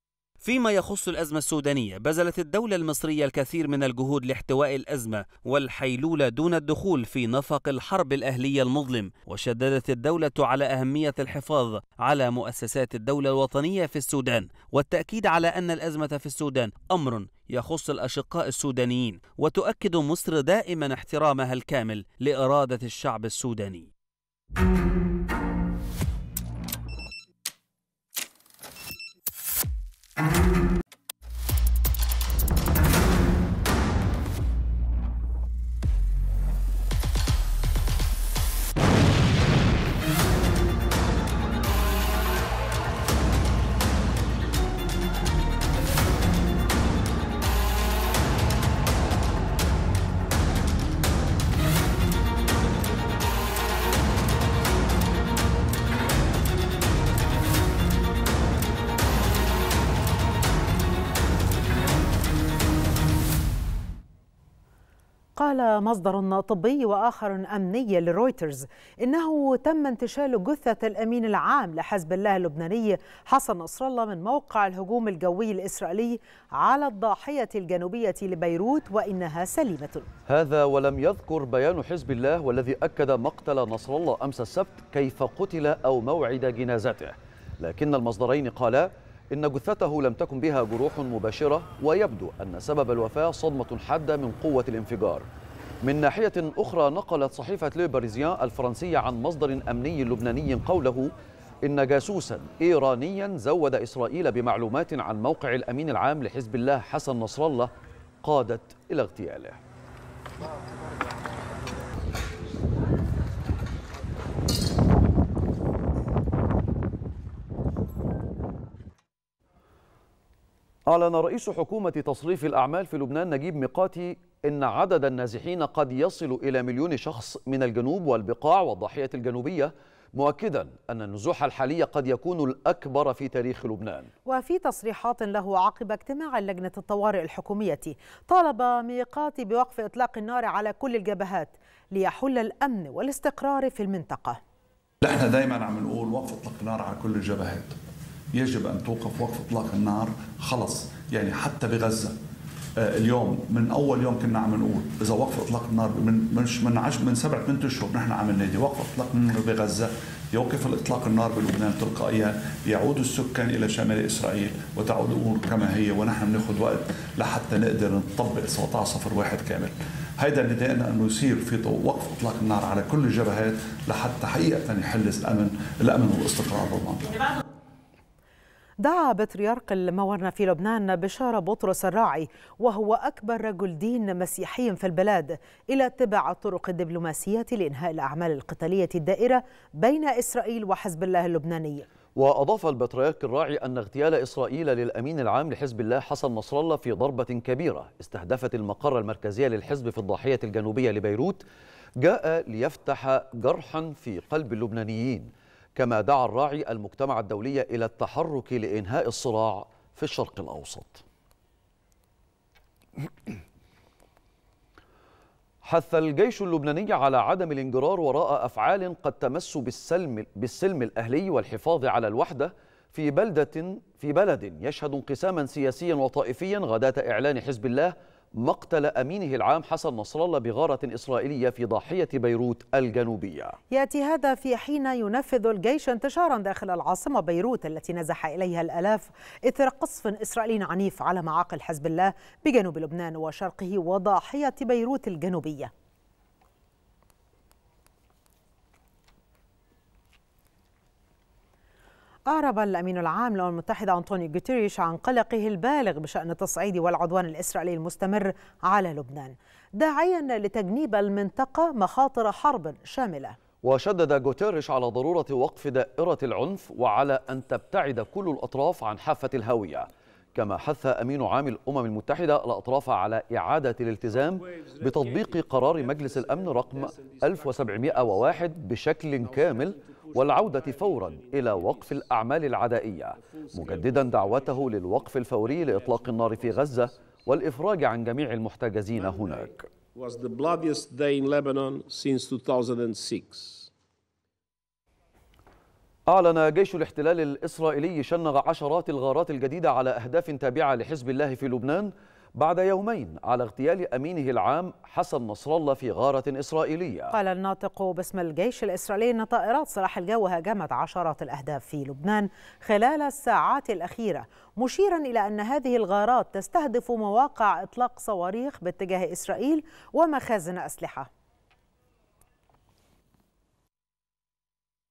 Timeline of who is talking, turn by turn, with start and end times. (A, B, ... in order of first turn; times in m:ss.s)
0:00.4-0:23.9 A
1:05.4-1:20.1 B
1:20.3-1:35.2 C
1:35.8-1:41.1 C
1:41.6-1:47.7 C
1:48.2-1:49.6 C
2:00.9-2:14.1 C
2:14.3-2:24.4 B
2:25.0-2:27.8 D
2:28.3-2:32.2 D
2:32.8-2:57.1 D
2:58.8-3:11.9 B
3:12.2-3:21.4 C
3:22.0-3:31.0 C
3:35.6-3:53.6 C
3:53.7-4:05.7 B
4:12.3-4:23.4 B
4:23.6-4:49.7 C
4:34.2-4:38.4 E
4:39.2-4:42.1 E
4:43.2-4:44.9 E
4:45.4-4:46.9 E
4:49.0-4:53.7 E
4:56.1-5:07.1 C
5:07.1-5:21.1 B